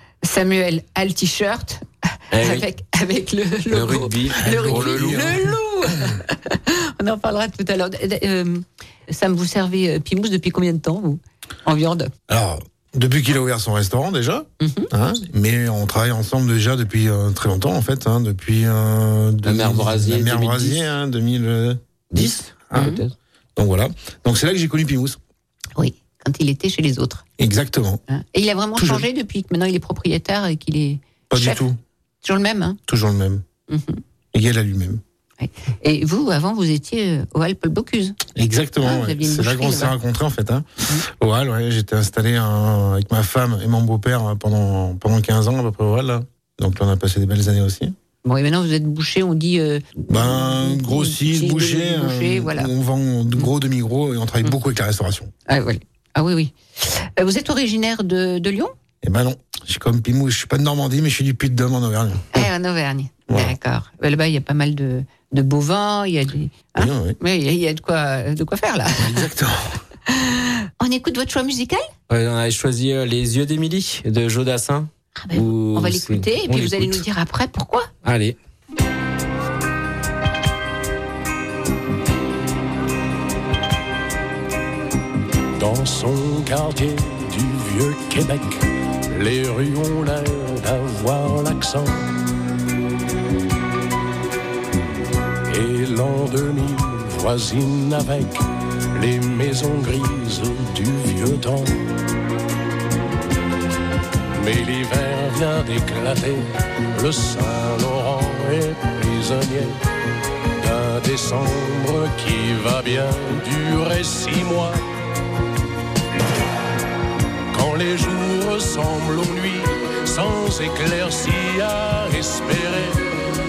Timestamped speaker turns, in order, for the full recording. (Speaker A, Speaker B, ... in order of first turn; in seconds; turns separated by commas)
Speaker A: 0.2-12.1, Speaker B: 2.3-2.6, Speaker B: 3.7-5.4, Speaker C: 4.4-5.4, Speaker C: 12.3-23.0, Speaker A: 14.6-14.9, Speaker B: 19.4-20.8, Speaker B: 22.1-23.1, Speaker A: 22.7-23.0, Speaker C: 23.6-25.2, Speaker A: 25.8-27.2, Speaker C: 27.4-28.0, Speaker A: 28.1-31.6, Speaker C: 28.8-29.1, Speaker C: 31.3-31.8, Speaker A: 32.2-32.8, Speaker C: 32.9-33.4, Speaker A: 33.7-34.0, Speaker C: 34.3-35.0, Speaker A: 35.4-38.2, Speaker C: 38.3-47.9, Speaker A: 38.8-39.9, Speaker A: 48.2-52.7, Speaker C: 50.1-55.3, Speaker A: 55.5-58.7, Speaker C: 59.0-62.4, Speaker A: 62.3-69.3, Speaker C: 63.3-63.5, Speaker C: 66.8-67.2, Speaker C: 69.0-69.7, Speaker A: 70.1-71.9, Speaker B: 72.1-77.0, Speaker A: 75.2-77.9, Speaker B: 78.0-78.3, Speaker D: 85.5-92.1, Speaker D: 95.5-101.8, Speaker D: 104.3-109.8, Speaker D: 110.6-114.8, Speaker D: 117.5-123.0